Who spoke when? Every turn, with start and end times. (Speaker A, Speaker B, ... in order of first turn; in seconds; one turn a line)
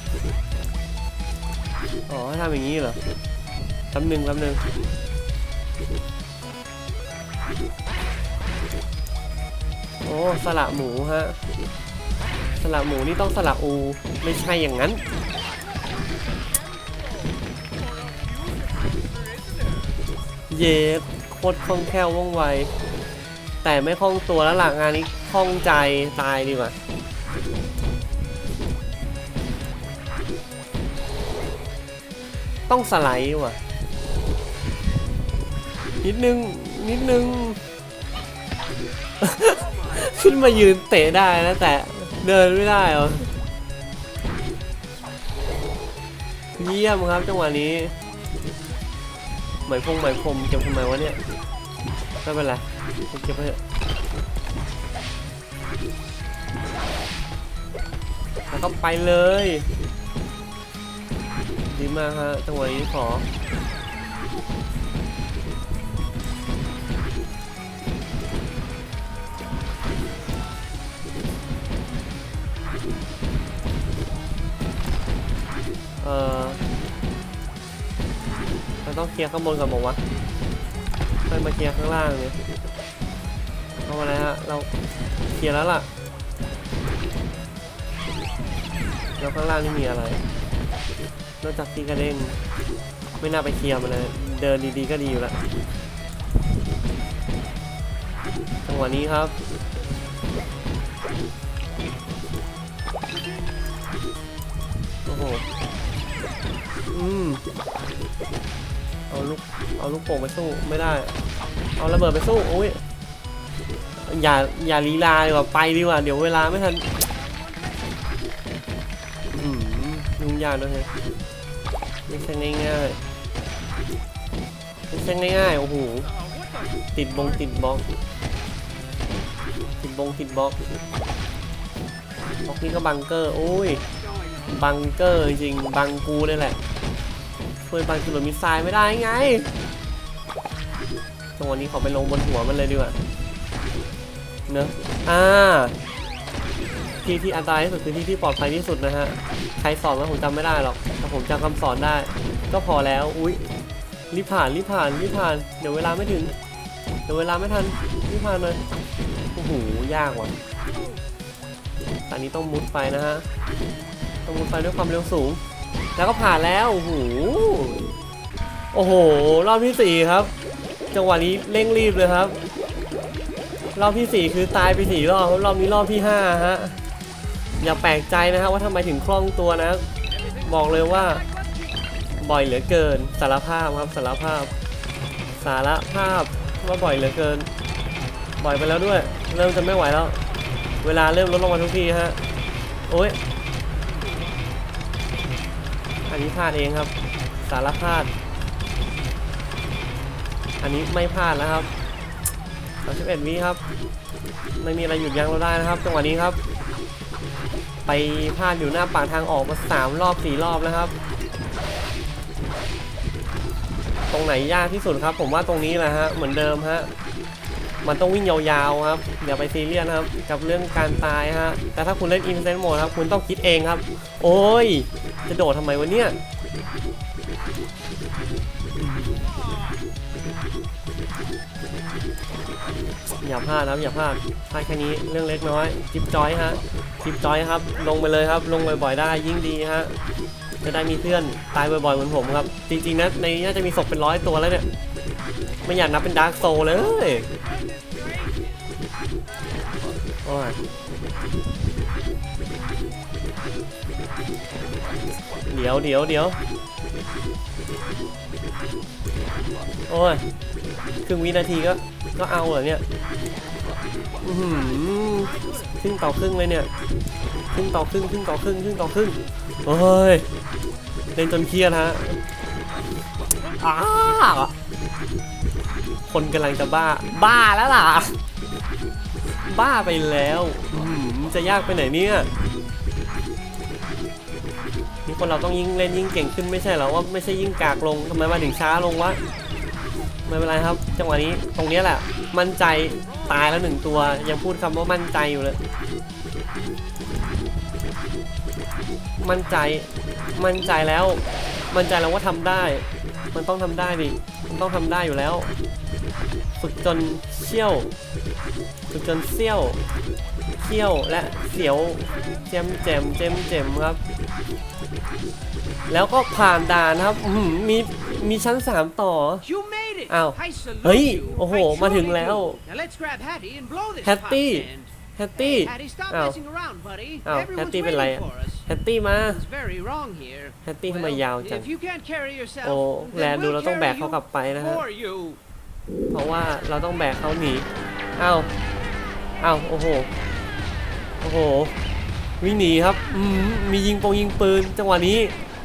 Speaker A: 2.1-3.0
Speaker A: 3.9-4.6
Speaker A: 10.0-11.4
Speaker A: 12.6-15.0
Speaker B: 15.2-20.0
Speaker A: 20.5-22.7
Speaker A: 23.6-26.7
Speaker A: 32.7-33.6
Speaker A: 36.0-37.6
Speaker A: 39.2-43.3
Speaker B: 39.4-40.7
Speaker A: 46.6-47.9
Speaker A: 49.6-51.2
Speaker A: 52.2-53.6
Speaker A: 58.5-59.7
Speaker A: 61.7-63.3
Speaker A: 76.0-76.6
Speaker A: 78.8-80.0
Speaker A: 81.2-82.4
Speaker A: 83.8-84.7
Speaker A: 85.3-85.9
Speaker A: 89.2-90.2
Speaker A: 91.4-92.3
Speaker A: 93.2-95.4
Speaker A: 98.6-99.3
Speaker A: 105.0-105.4
Speaker A: 106.9-107.4
Speaker A: 109.1-111.2
Speaker A: 111.8-112.8
Speaker A: 114.0-116.9
Speaker B: 116.9-118.1
Speaker A: 119.3-120.9
Speaker A: 122.1-123.0
Speaker A: 124.9-126.1
Speaker B: 126.0-127.4
Speaker A: 126.9-127.8
Speaker A: 129.8-130.6
Speaker A: 132.4-133.8
Speaker B: 133.9-134.6
Speaker A: 134.5-136.6
Speaker A: 137.7-139.5
Speaker A: 141.4-143.0
Speaker A: 144.5-145.7
Speaker A: 147.0-153.4
Speaker A: 154.1-156.3
Speaker A: 157.1-158.6
Speaker A: 159.3-160.3
Speaker B: 160.4-161.0
Speaker A: 162.1-163.2
Speaker A: 164.2-165.4
Speaker A: 165.9-167.9
Speaker A: 168.7-170.3
Speaker A: 170.9-172.4
Speaker A: 173.7-176.8
Speaker A: 177.6-179.8
Speaker B: 180.1-181.9
Speaker A: 180.4-181.2
Speaker A: 182.2-184.5
Speaker A: 185.4-187.5
Speaker A: 188.4-190.2
Speaker A: 190.8-192.2
Speaker A: 192.9-193.2
Speaker B: 193.9-194.3
Speaker A: 196.1-198.1
Speaker A: 200.6-201.7
Speaker A: 202.8-203.6
Speaker A: 204.6-206.4
Speaker A: 207.8-210.9
Speaker A: 214.1-216.9
Speaker A: 217.8-226.2
Speaker A: 228.8-229.1
Speaker B: 229.2-229.8
Speaker A: 233.2-239.9
Speaker A: 240.6-244.7
Speaker A: 245.6-247.3
Speaker B: 246.6-250.0
Speaker A: 250.2-250.6
Speaker A: 255.4-256.4
Speaker A: 259.9-260.2
Speaker A: 261.1-262.8
Speaker A: 264.2-266.7
Speaker B: 264.3-265.8
Speaker A: 267.5-270.3
Speaker A: 271.1-272.2
Speaker A: 273.6-274.5
Speaker A: 276.1-278.2
Speaker A: 279.3-282.3
Speaker A: 285.1-289.2
Speaker A: 290.3-295.6
Speaker B: 292.9-294.2
Speaker A: 299.2-305.6
Speaker A: 306.6-307.9
Speaker A: 308.9-309.8
Speaker A: 310.6-314.0
Speaker B: 311.7-313.0
Speaker A: 315.9-319.4
Speaker B: 319.4-328.6
Speaker A: 320.1-322.6
Speaker A: 324.0-326.4
Speaker A: 327.2-329.4
Speaker B: 329.2-335.4
Speaker A: 330.6-331.7
Speaker A: 332.6-334.8
Speaker A: 336.1-338.5
Speaker A: 339.4-340.1
Speaker A: 341.2-341.7
Speaker A: 342.4-345.4